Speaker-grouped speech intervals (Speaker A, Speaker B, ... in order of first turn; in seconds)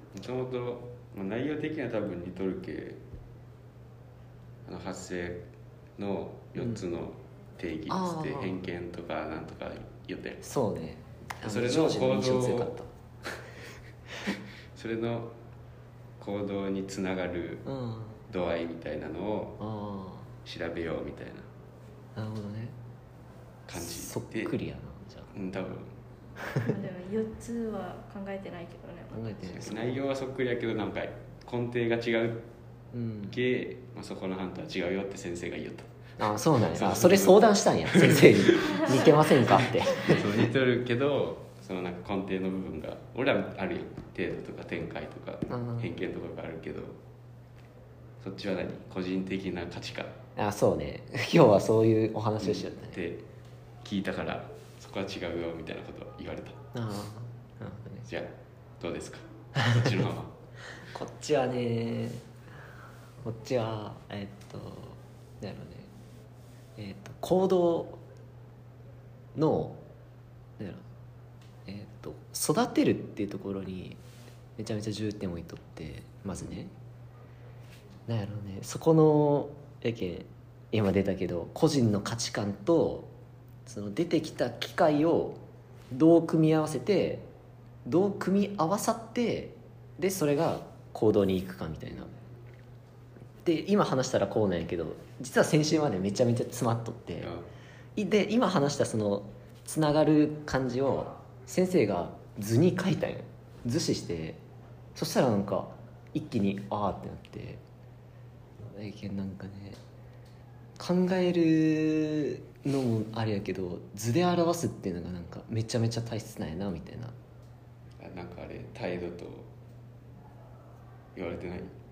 Speaker A: 0.1-3.0, 4.7-5.4, 6.0-10.5, 11.4-12.8, 14.8-15.3, 16.2-17.7, 18.3-19.6, 20.5-21.5, 23.7-24.5, 25.3-25.9, 29.5-32.5, 33.3-35.9, 36.7-47.0, 48.2-50.1, 52.4-53.2, 53.8-56.6, 58.1-60.3, 97.2-97.5, 118.0-119.5, 121.1-121.7
Speaker B: 6.6-6.8, 7.9-8.6, 10.4-12.9, 17.7-18.2, 19.6-20.3, 22.1-22.8, 23.8-25.3, 26.4-26.7, 29.1-30.0, 32.9-33.4, 36.2-40.5, 45.5-45.9, 50.4-53.0, 56.7-58.1, 59.6-59.9, 60.9-62.3, 63.2-65.9, 66.8-68.0, 69.3-69.8, 70.6-70.8, 71.7-74.0, 74.6-76.7, 78.1-83.1, 83.6-87.3, 87.9-92.1, 93.4-97.3, 98.0-104.4, 105.0-107.6, 108.6-109.8, 110.8-117.2
Speaker C: 26.6-29.2